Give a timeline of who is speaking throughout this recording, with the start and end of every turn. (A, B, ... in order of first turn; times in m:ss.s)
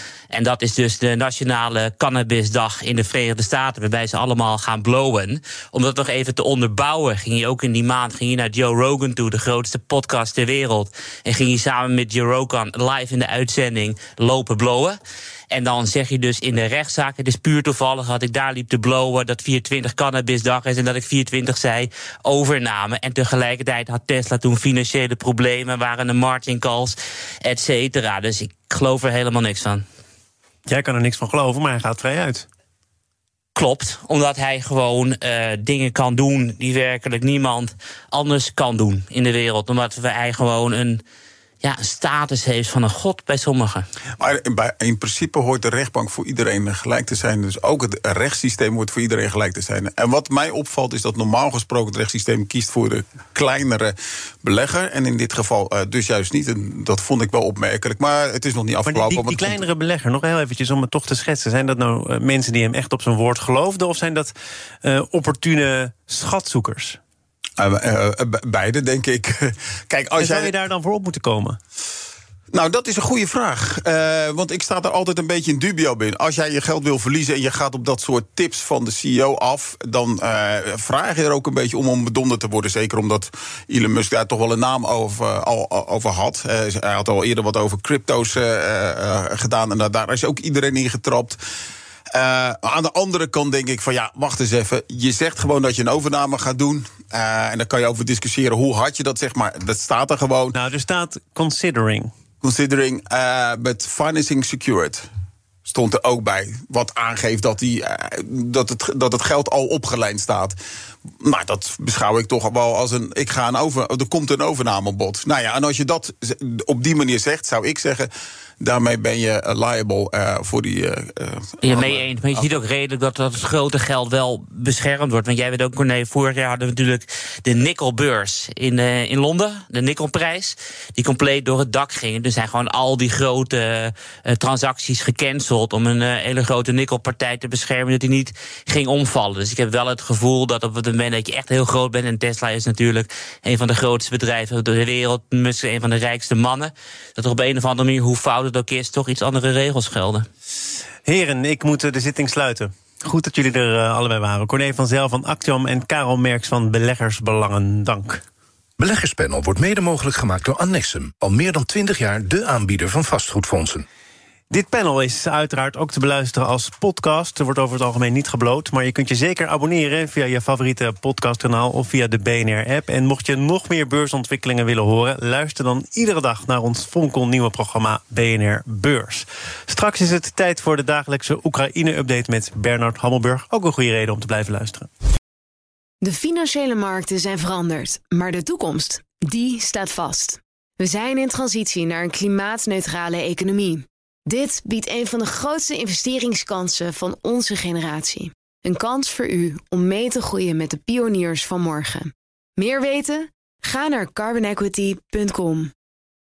0:00.3-0:15.0 A
0:15.5-0:29.8 A
0:30.7-0:32.5 B
0:33.6-0:41.0 A
0:41.6-0:43.8 A
0:44.2-0:59.6 C
0:58.9-1:04.3 B
1:04.8-1:07.0 B
1:07.6-1:10.5 C
1:10.2-1:11.6 B
1:12.5-1:31.4 C
1:32.1-1:40.6 C
1:40.5-1:42.1 B
1:42.4-1:45.1 C
1:45.7-1:50.6 C
1:51.2-1:58.1 C
1:58.6-2:02.5 C
2:01.6-2:30.3 A
2:31.1-2:38.2 B
2:38.8-2:43.9 D
2:44.5-3:04.9 B
3:06.0-3:25.7 E